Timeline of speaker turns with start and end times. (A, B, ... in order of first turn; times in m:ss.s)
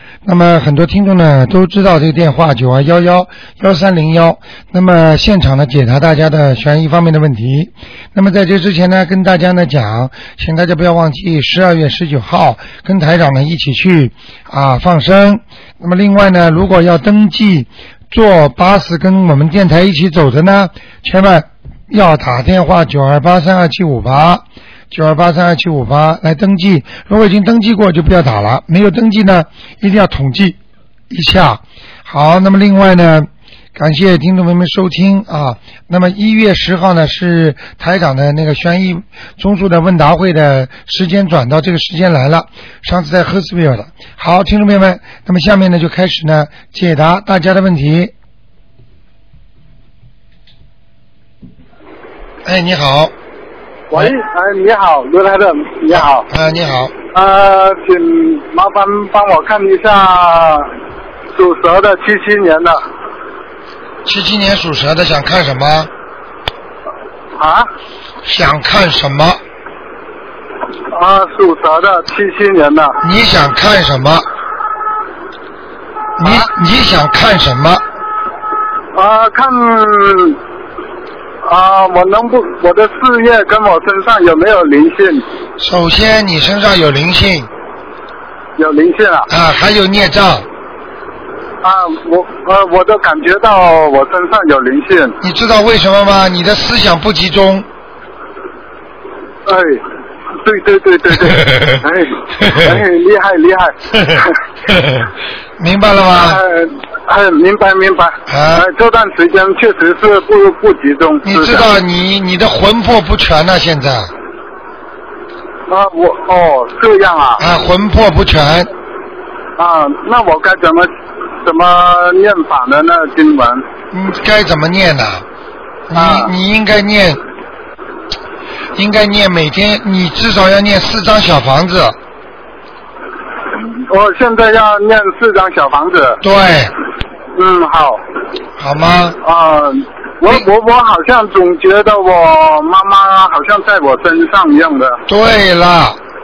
0:00.2-0:30.6 A
0:31.1-0:48.1 A
0:52.4-0:53.1 A
0:53.9-0:56.2 B
0:55.9-0:56.9 A
0:57.1-1:00.7 B
1:01.4-1:02.8 B
1:04.0-1:05.9 A
1:07.4-1:07.7 B
1:08.2-1:09.4 A
1:10.9-1:13.0 B
1:13.0-1:14.3 A
1:16.2-1:17.8 A
1:19.0-1:20.4 B
1:21.4-1:25.2 B
1:25.6-1:27.5 A
1:28.6-1:29.3 B
1:29.3-1:30.5 A
1:31.6-1:35.2 B
1:35.2-1:37.7 A
1:39.5-1:39.8 B
1:40.4-1:44.3 B
1:44.7-1:46.4 A
1:46.2-1:51.6 B
1:48.3-1:48.7 A
1:51.2-1:54.1 A
1:55.7-1:57.4 B
1:57.4-1:58.7 A
1:59.6-2:00.9 B
2:01.4-2:03.6 B
2:03.9-2:05.2 A
2:05.9-2:07.2 A
2:06.0-2:06.3 B
2:08.8-2:12.0 A
2:13.6-2:16.2 B
2:16.2-2:16.7 A
2:17.4-2:18.0 B
2:18.6-2:19.2 A
2:19.2-2:25.0 B
2:25.1-2:26.0 A